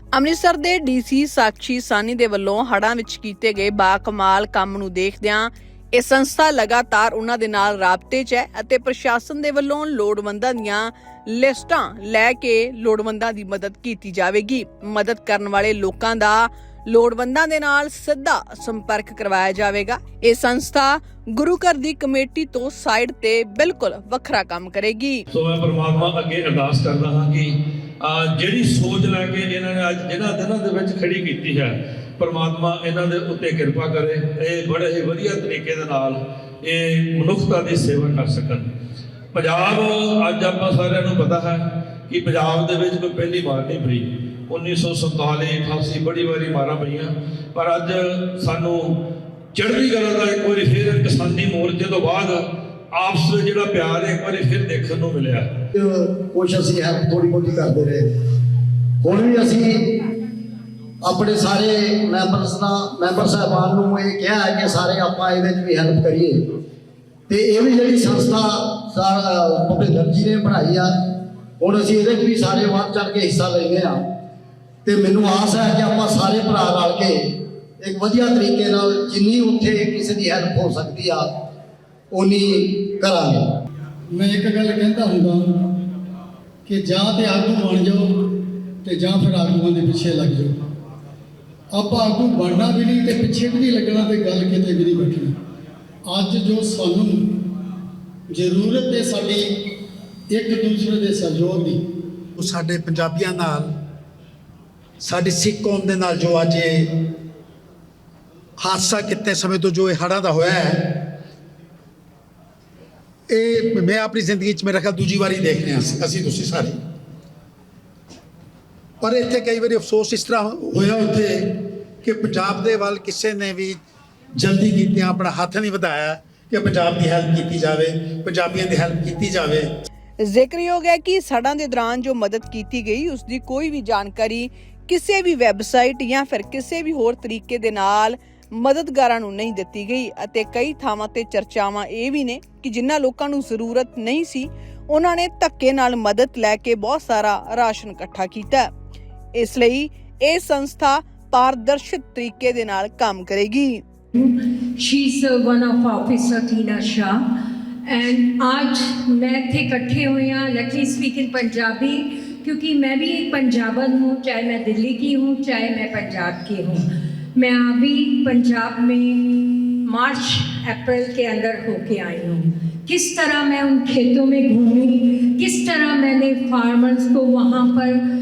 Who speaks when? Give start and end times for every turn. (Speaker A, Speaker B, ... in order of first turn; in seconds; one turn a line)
Speaker A: 0.1-25.2
Speaker B: 25.3-38.7
Speaker B: 39.3-49.0
Speaker B: 49.5-55.5
Speaker C: 55.7-58.1
Speaker C: 59.0-59.9
Speaker C: 61.0-66.4
Speaker C: 67.3-70.9
Speaker C: 71.6-74.0
Speaker C: 74.8-81.3
Speaker C: 82.1-83.6
Speaker D: 84.1-85.6
Speaker D: 86.7-90.5
Speaker D: 91.7-95.3
Speaker D: 96.0-97.4
Speaker D: 98.3-99.5
Speaker D: 100.3-101.8
Speaker E: 102.4-103.7
Speaker E: 105.0-106.9
Speaker E: 108.6-111.0
Speaker E: 113.3-116.8
Speaker E: 119.0-123.8
Speaker E: 124.4-129.7
Speaker A: 130.3-148.7
Speaker A: 149.4-153.8
Speaker F: 154.2-157.2
Speaker F: 157.9-178.0